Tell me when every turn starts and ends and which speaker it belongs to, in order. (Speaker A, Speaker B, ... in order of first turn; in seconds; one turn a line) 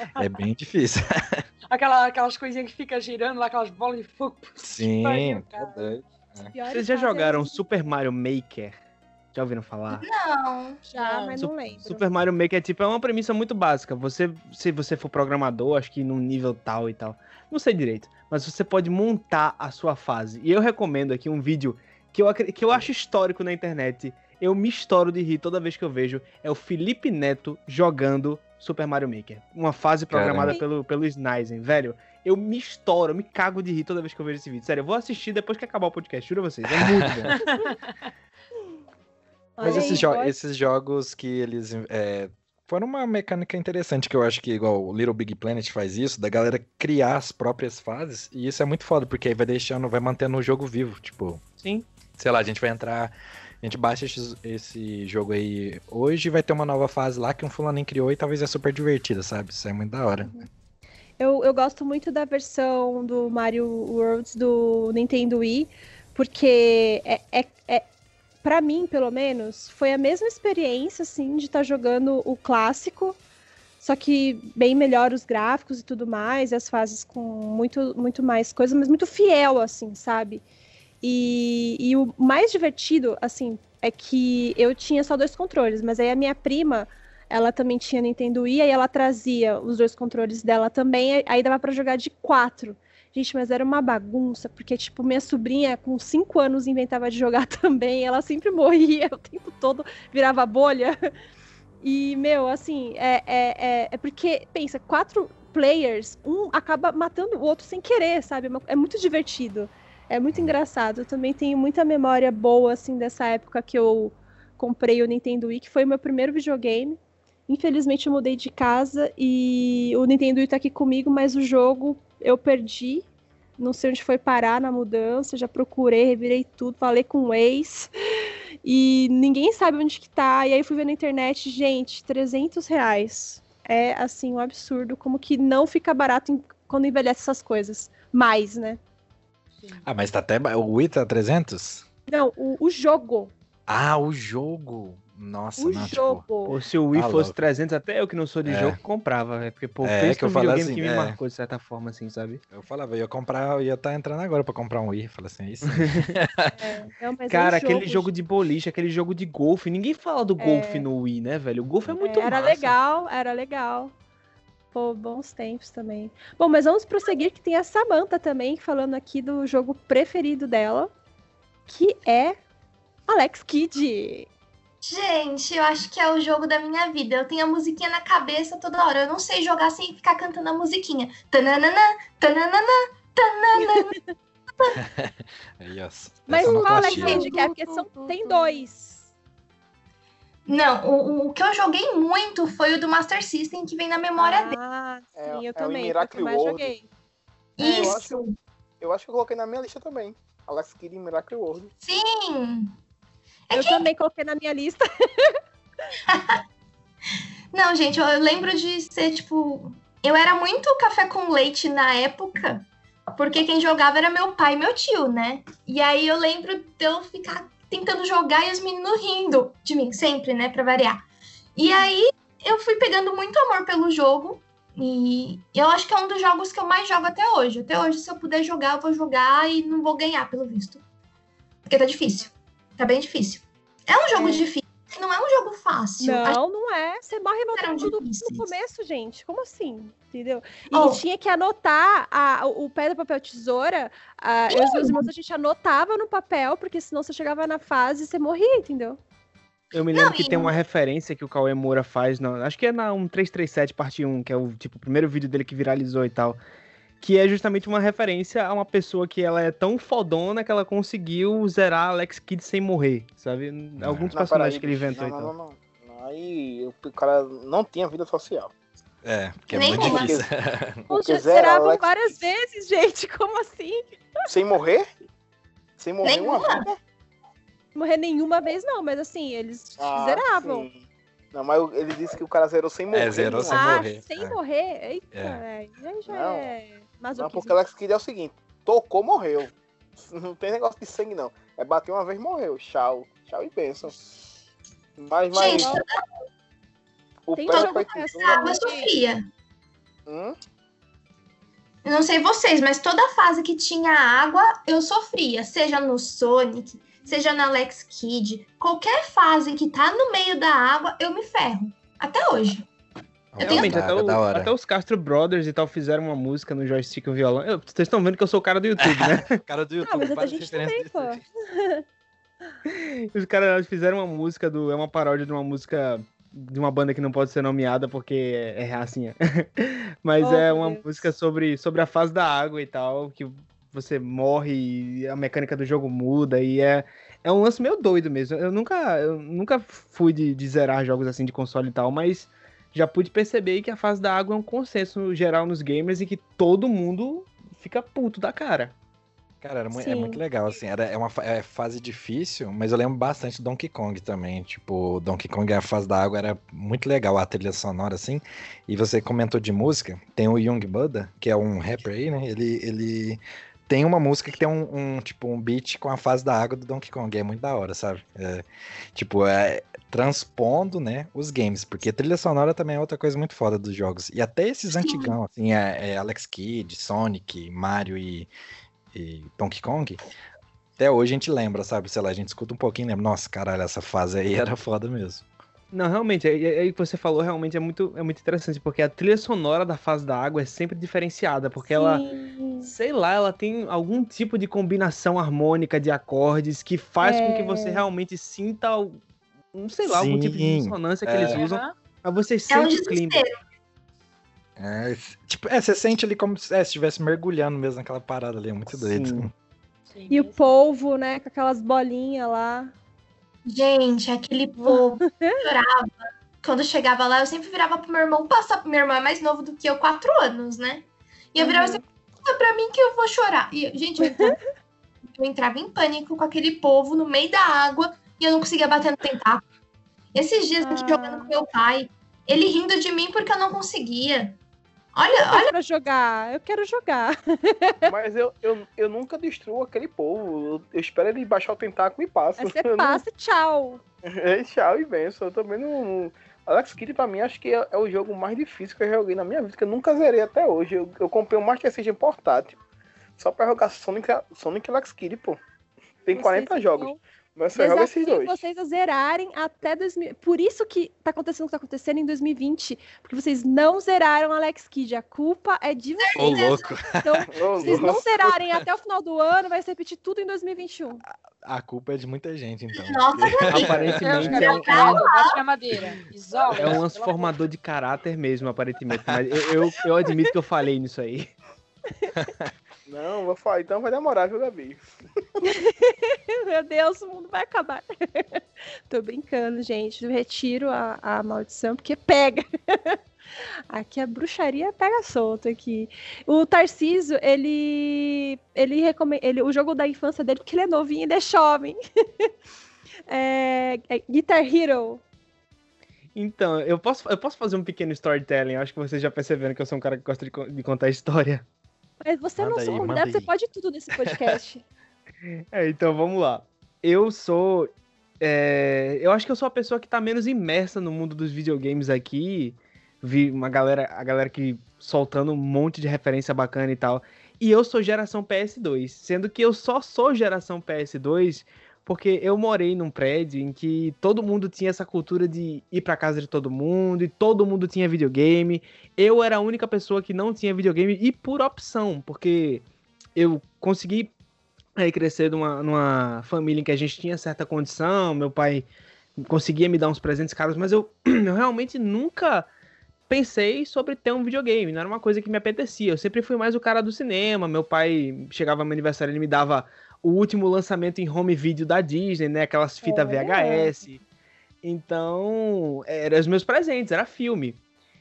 Speaker A: 0.2-1.4
Speaker B: 1.7-6.0
Speaker A: 4.6-6.5
Speaker C: 6.5-7.6
Speaker D: 6.7-8.8
Speaker D: 9.3-10.1
Speaker E: 9.9-10.8
Speaker C: 10.9-12.1
Speaker D: 11.0-37.3
Speaker A: 30.1-30.6
Speaker A: 36.8-37.3
Speaker B: 37.3-37.9
Speaker C: 39.6-40.3
Speaker A: 39.6-51.4
Speaker E: 39.6-40.1
Speaker A: 52.2-60.4
Speaker C: 61.2-67.9
Speaker C: 68.4-73.2
Speaker C: 73.8-80.4
Speaker C: 81.0-101.0
Speaker C: 101.8-123.1
Speaker C: 123.6-127.9
Speaker C: 128.6-138.8
Speaker A: 139.8-141.8
Speaker C: 142.1-143.3
Speaker A: 143.7-146.2
Speaker C: 145.6-146.6
Speaker D: 146.5-152.4
Speaker A: 146.9-147.4
Speaker A: 148.5-148.8
Speaker A: 149.8-151.2
Speaker A: 152.5-156.6
Speaker D: 155.7-156.1
Speaker C: 156.6-158.1
Speaker D: 157.3-162.5
Speaker C: 160.4-160.9
Speaker A: 161.9-162.8
Speaker C: 162.0-163.9
Speaker C: 164.7-170.9
Speaker C: 171.7-172.4
Speaker C: 173.1-174.3
Speaker E: 174.8-183.9
Speaker C: 183.6-184.0
Speaker A: 184.8-187.3
Speaker C: 186.3-189.1
Speaker E: 186.4-188.6
Speaker E: 190.5-194.6
Speaker C: 194.2-196.9
Speaker F: 195.2-196.7
Speaker E: 197.6-198.4
Speaker F: 197.6-198.2
Speaker F: 198.8-201.7
Speaker E: 201.8-202.7
Speaker E: 203.5-203.9
Speaker C: 203.5-205.3
Speaker E: 206.1-206.4
Speaker E: 207.5-221.0
Speaker E: 221.6-230.8
Speaker E: 231.7-236.4
Speaker C: 234.2-234.4
Speaker C: 236.0-249.0
Speaker E: 237.6-238.5
Speaker E: 240.7-241.0
Speaker E: 244.5-245.1
Speaker D: 249.7-256.4
Speaker E: 249.9-250.6
Speaker D: 257.0-265.3
Speaker A: 263.8-264.1
Speaker F: 264.1-268.5
Speaker A: 269.0-270.8
Speaker E: 269.5-270.2
Speaker F: 269.6-270.2
Speaker F: 270.9-272.1
Speaker C: 270.9-273.8
Speaker F: 274.3-274.9
Speaker F: 275.8-276.8
Speaker E: 276.0-276.7
Speaker C: 277.8-280.7
Speaker F: 279.8-283.7
Speaker A: 282.9-284.4
Speaker C: 283.5-287.6
Speaker A: 285.1-285.4
Speaker F: 286.1-286.5
Speaker F: 287.2-293.9
Speaker F: 295.0-295.7
Speaker E: 295.3-295.9
Speaker C: 295.5-295.8
Speaker F: 297.3-298.5
Speaker C: 297.4-298.9
Speaker E: 297.5-299.2
Speaker F: 300.1-300.4
Speaker E: 301.9-312.7
Speaker A: 313.3-314.5
Speaker E: 313.4-313.8
Speaker D: 313.4-319.4
Speaker A: 318.8-321.2
Speaker C: 319.8-321.8
Speaker D: 322.7-348.8
Speaker C: 330.2-331.1
Speaker A: 349.4-378.3
Speaker C: 349.7-350.2
Speaker E: 374.8-375.1
Speaker A: 378.9-380.0
Speaker A: 380.8-385.3
Speaker D: 385.7-392.0
Speaker C: 391.7-392.7
Speaker D: 392.6-399.0
Speaker C: 397.0-397.9
Speaker D: 399.5-403.2
Speaker A: 399.9-401.4
Speaker B: 401.2-401.8
Speaker E: 402.5-403.3
Speaker A: 404.6-409.3
Speaker D: 408.7-409.3
Speaker B: 409.9-410.4
Speaker C: 410.1-412.7
Speaker E: 413.5-415.9
Speaker C: 414.6-415.4
Speaker E: 416.4-424.4
Speaker C: 421.4-421.8
Speaker C: 424.0-424.3
Speaker E: 425.2-429.4
Speaker E: 430.1-434.4
Speaker C: 430.6-431.3
Speaker E: 434.9-435.5
Speaker C: 435.1-437.9
Speaker F: 437.9-443.0
Speaker C: 442.4-443.8
Speaker F: 444.1-452.6
Speaker F: 453.2-455.4
Speaker F: 456.1-458.4
Speaker C: 456.1-457.0
Speaker C: 457.5-471.0
Speaker E: 466.0-466.7
Speaker A: 466.2-468.6
Speaker F: 467.3-468.0
Speaker A: 471.4-474.4
Speaker E: 472.7-475.4
Speaker D: 473.5-475.0
Speaker B: 473.9-477.4
Speaker D: 476.5-481.3
Speaker A: 482.1-482.5
Speaker F: 482.9-484.9
Speaker C: 485.4-493.0
Speaker C: 493.7-502.3
Speaker C: 503.1-505.0
Speaker D: 506.1-511.4
Speaker C: 512.0-514.6
Speaker A: 512.4-513.3
Speaker A: 514.0-514.4
Speaker D: 515.3-542.6
Speaker D: 543.2-544.1
Speaker D: 544.8-548.7
Speaker D: 549.2-552.5
Speaker D: 553.1-564.0
Speaker C: 562.8-563.7
Speaker D: 564.6-567.6